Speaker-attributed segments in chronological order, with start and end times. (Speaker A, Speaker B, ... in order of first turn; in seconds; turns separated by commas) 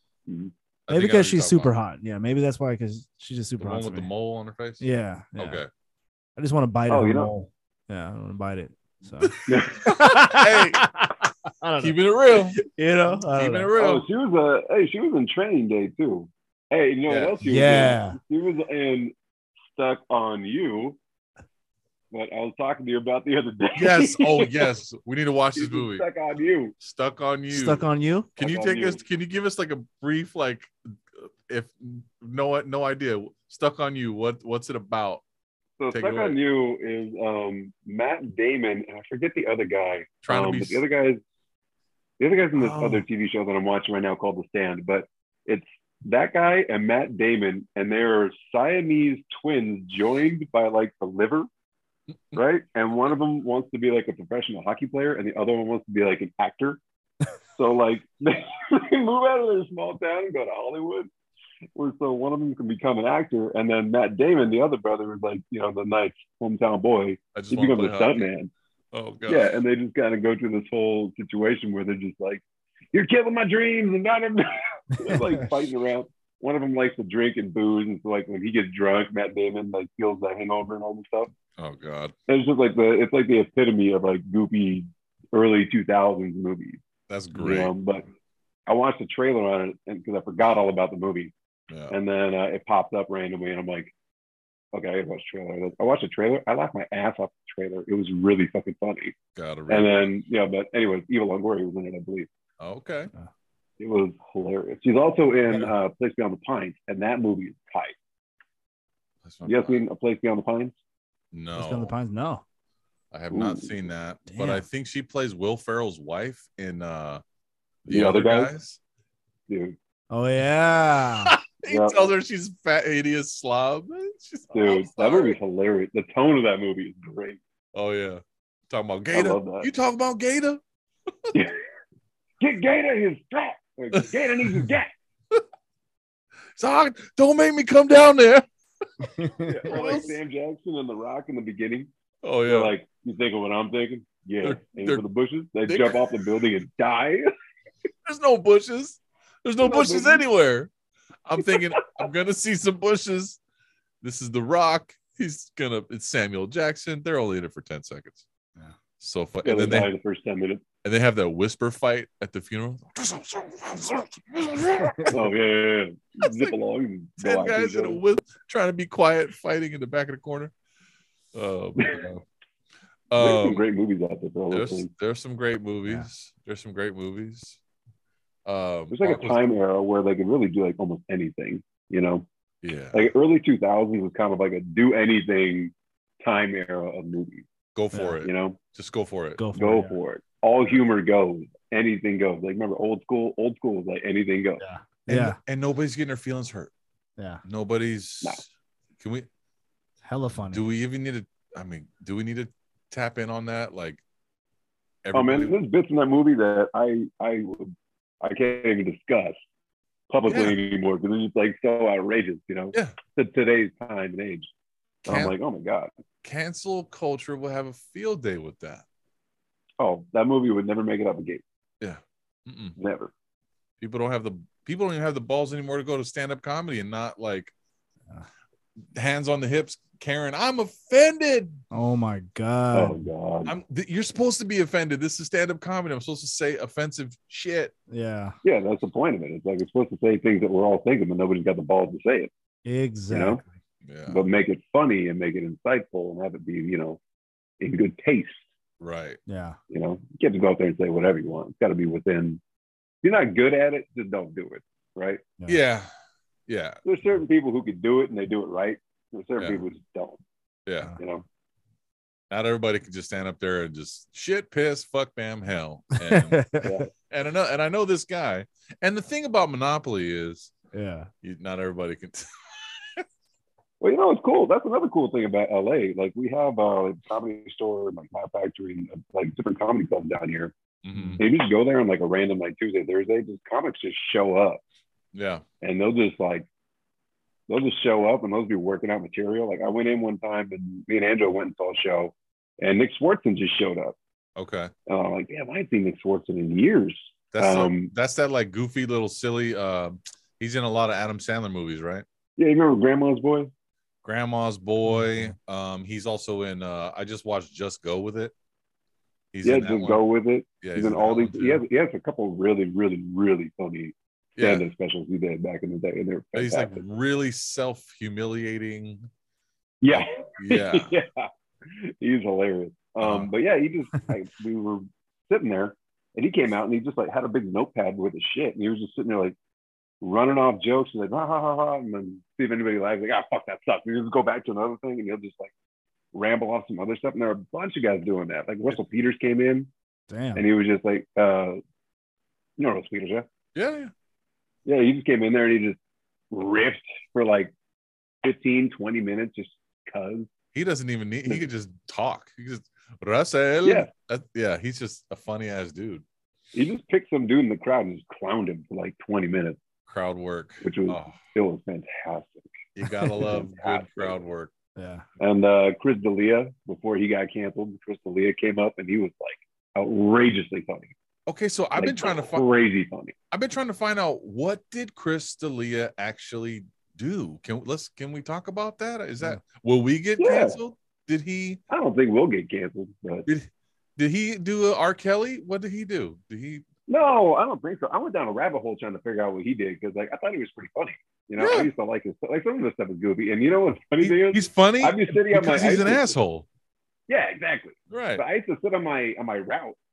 Speaker A: 0.3-0.5, Speaker B: 0.9-1.7, Speaker C: 0.9-4.1, Speaker B: 3.6-4.8, Speaker C: 4.8-5.6, Speaker B: 5.4-5.7, Speaker C: 6.4-11.9, Speaker A: 6.9-7.3, Speaker B: 9.2-10.9, Speaker A: 9.5-9.9, Speaker B: 11.8-12.6, Speaker C: 12.6-13.7, Speaker B: 13.3-14.1, Speaker A: 13.8-19.1, Speaker B: 17.1-17.4, Speaker C: 17.4-18.2, Speaker A: 19.7-21.0, Speaker A: 22.1-24.6, Speaker B: 23.8-26.1, Speaker A: 25.6-26.8, Speaker B: 26.8-27.9, Speaker C: 27.5-28.3, Speaker B: 28.4-35.2, Speaker A: 28.4-29.0, Speaker A: 35.8-41.2, Speaker B: 35.9-36.4, Speaker B: 40.2-40.8, Speaker A: 42.2-51.5, Speaker B: 42.6-43.0, Speaker A: 52.3-56.8, Speaker A: 57.6-61.1, Speaker A: 61.8-68.5, Speaker B: 67.3-68.3, Speaker B: 68.9-69.5, Speaker A: 69.3-81.3, Speaker B: 81.6-82.1, Speaker A: 82.3-86.8, Speaker B: 87.1-87.7, Speaker A: 87.3-88.0, Speaker A: 88.7-91.3, Speaker B: 91.7-92.0, Speaker A: 91.9-93.9, Speaker A: 94.7-99.2, Speaker B: 99.3-100.1, Speaker A: 99.7-102.3, Speaker B: 102.6-103.1, Speaker A: 103.8-108.0, Speaker B: 109.2-109.8, Speaker A: 109.5-110.8, Speaker B: 111.3-111.9, Speaker C: 111.6-112.4, Speaker B: 113.1-117.2, Speaker A: 113.3-113.7, Speaker C: 114.3-114.6, Speaker B: 117.8-118.8, Speaker A: 117.9-118.5, Speaker A: 119.5-119.8, Speaker C: 120.1-121.3, Speaker B: 121.2-125.4, Speaker A: 121.7-122.1, Speaker A: 124.5-127.4, Speaker B: 127.7-130.6, Speaker A: 129.1-129.7, Speaker A: 132.4-134.9, Speaker B: 133.9-134.7, Speaker B: 136.6-138.4, Speaker C: 139.2-139.6, Speaker A: 139.5-141.9, Speaker B: 139.6-140.2, Speaker B: 142.2-142.7, Speaker A: 142.5-147.3, Speaker B: 144.4-145.0, Speaker B: 145.7-146.0, Speaker B: 148.1-150.7, Speaker A: 149.6-150.2, Speaker B: 151.2-153.4, Speaker B: 154.0-158.2, Speaker B: 159.0-159.9, Speaker A: 159.4-160.7, Speaker B: 160.8-165.3, Speaker C: 164.8-165.1, Speaker A: 165.1-168.0, Speaker B: 166.2-166.6, Speaker B: 167.2-170.5, Speaker B: 171.3-172.2, Speaker B: 173.1-173.6, Speaker A: 173.2-174.9, Speaker B: 174.5-177.6, Speaker B: 178.5-179.4, Speaker A: 178.9-182.3, Speaker B: 182.6-183.1, Speaker A: 182.9-187.5, Speaker B: 187.8-189.4, Speaker A: 188.2-188.6, Speaker C: 189.4-189.9, Speaker A: 189.5-194.6, Speaker C: 194.6-195.4, Speaker B: 195.1-196.7, Speaker B: 197.4-199.3, Speaker C: 200.1-200.6, Speaker B: 200.5-204.0, Speaker B: 205.0-205.6, Speaker A: 205.1-209.4, Speaker A: 210.1-214.5, Speaker B: 210.3-210.6, Speaker B: 215.1-215.3, Speaker A: 215.1-215.9, Speaker B: 216.2-218.8, Speaker A: 219.8-221.4, Speaker B: 221.8-222.8, Speaker A: 222.8-223.1, Speaker B: 223.8-227.5, Speaker B: 228.9-231.6, Speaker C: 231.7-233.0, Speaker A: 232.7-233.6, Speaker B: 233.5-237.7, Speaker C: 237.9-238.4, Speaker A: 238.4-242.3, Speaker C: 242.7-243.5, Speaker A: 243.1-243.4, Speaker B: 243.8-244.2, Speaker A: 244.1-247.0, Speaker A: 247.6-248.4, Speaker B: 248.8-249.2, Speaker C: 249.3-249.6, Speaker A: 249.7-252.4, Speaker A: 253.0-255.3, Speaker B: 255.5-255.9, Speaker B: 256.5-256.8, Speaker A: 256.9-260.2, Speaker B: 260.7-261.0, Speaker A: 261.0-261.2, Speaker B: 262.3-270.5, Speaker C: 266.1-266.7, Speaker A: 266.6-266.9, Speaker C: 270.7-271.1, Speaker B: 271.2-272.3, Speaker A: 273.8-280.5, Speaker B: 280.8-281.2, Speaker C: 280.9-281.2, Speaker A: 281.2-284.6, Speaker B: 285.1-285.4, Speaker A: 285.6-286.5, Speaker A: 287.5-294.0, Speaker B: 294.4-294.7, Speaker A: 294.9-297.9, Speaker B: 297.3-302.1, Speaker A: 302.4-303.5, Speaker B: 304.0-308.3, Speaker C: 304.9-305.3, Speaker B: 309.3-310.0, Speaker A: 309.4-316.8, Speaker B: 310.6-311.6, Speaker B: 314.4-314.6, Speaker B: 316.4-319.1, Speaker A: 319.8-329.4, Speaker B: 319.9-320.9, Speaker B: 323.0-323.3, Speaker A: 330.0-335.5, Speaker A: 336.1-339.7, Speaker C: 340.1-340.4, Speaker A: 340.4-341.6, Speaker A: 342.6-343.3, Speaker B: 343.6-343.9, Speaker A: 344.7-345.8, Speaker A: 346.3-347.5, Speaker A: 348.2-350.3, Speaker B: 350.5-356.0, Speaker A: 353.6-353.9, Speaker A: 356.5-359.6, Speaker B: 359.9-361.2, Speaker A: 360.6-362.5, Speaker B: 362.8-364.5, Speaker A: 363.2-364.2, Speaker C: 364.8-365.0, Speaker A: 365.2-370.9, Speaker B: 371.3-372.5, Speaker A: 371.8-373.1, Speaker B: 373.3-381.6, Speaker A: 380.2-380.6, Speaker A: 381.7-383.3, Speaker B: 383.3-386.6, Speaker A: 386.9-396.1, Speaker B: 391.4-391.7, Speaker B: 394.0-396.5, Speaker A: 397.1-399.8, Speaker B: 397.9-398.2